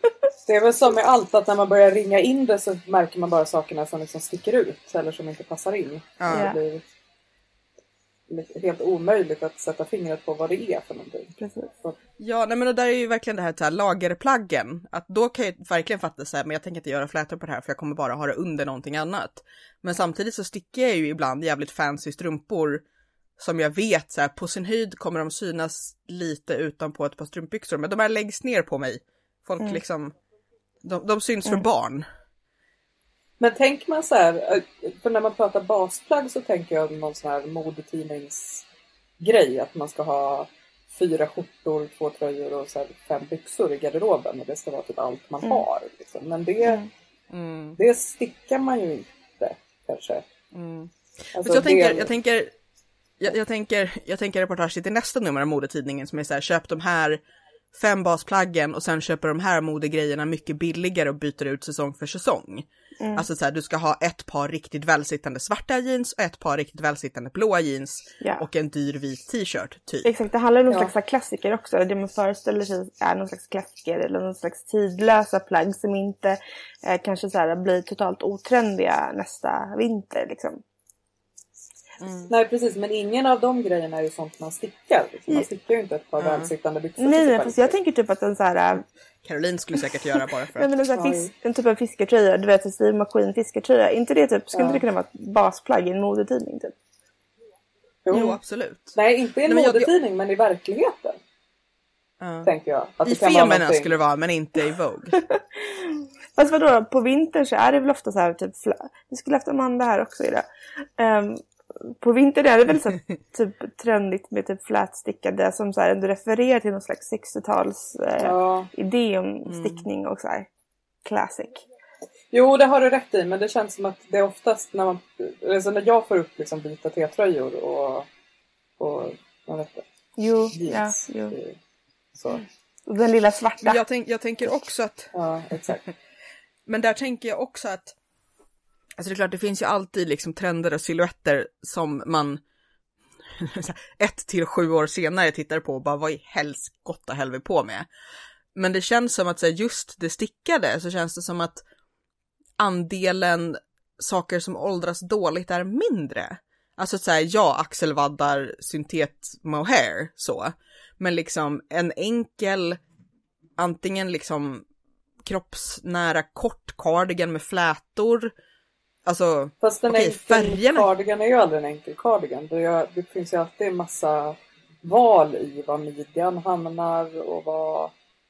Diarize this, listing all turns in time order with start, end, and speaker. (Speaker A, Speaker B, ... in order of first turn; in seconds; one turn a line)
Speaker A: 0.5-6.8
Speaker B: 6.2-6.5
Speaker C: 6.3-6.6
Speaker A: 8.3-12.0
Speaker C: 11.4-11.7
Speaker B: 12.2-22.8
Speaker B: 23.4-30.2
Speaker B: 30.8-32.1
Speaker A: 33.4-38.6
Speaker A: 39.2-46.9
Speaker B: 47.3-47.8
Speaker A: 47.8-50.2
Speaker B: 50.5-52.5
Speaker A: 51.4-52.1
Speaker B: 53.2-57.2
Speaker B: 57.7-70.1
Speaker C: 63.0-63.3
Speaker C: 70.0-80.6
Speaker B: 82.0-82.3
Speaker A: 82.3-87.8
Speaker B: 86.2-86.5
Speaker C: 87.0-88.8
Speaker B: 89.2-90.7
Speaker C: 90.6-96.8
Speaker A: 91.0-91.3
Speaker A: 94.5-94.8
Speaker A: 98.1-98.4
Speaker B: 98.1-99.0
Speaker A: 99.0-101.2
Speaker B: 99.5-99.9
Speaker B: 102.2-102.5
Speaker A: 102.5-103.9
Speaker B: 103.0-105.2
Speaker C: 105.2-110.5
Speaker C: 111.0-120.5
Speaker A: 118.2-118.7
Speaker B: 119.5-119.9
Speaker C: 121.0-121.7
Speaker A: 122.3-128.1
Speaker A: 128.8-129.8
Speaker C: 130.2-131.4
Speaker A: 130.6-131.6
Speaker A: 132.2-132.4
Speaker C: 132.9-133.8
Speaker B: 133.6-135.1
Speaker A: 135.1-135.8
Speaker B: 136.7-138.0
Speaker B: 139.0-142.4
Speaker B: 143.3-147.9
Speaker B: 148.6-151.6
Speaker B: 152.6-162.8
Speaker B: 163.6-164.7
Speaker B: 165.2-168.3
Speaker B: 169.1-170.9
Speaker A: 169.6-177.9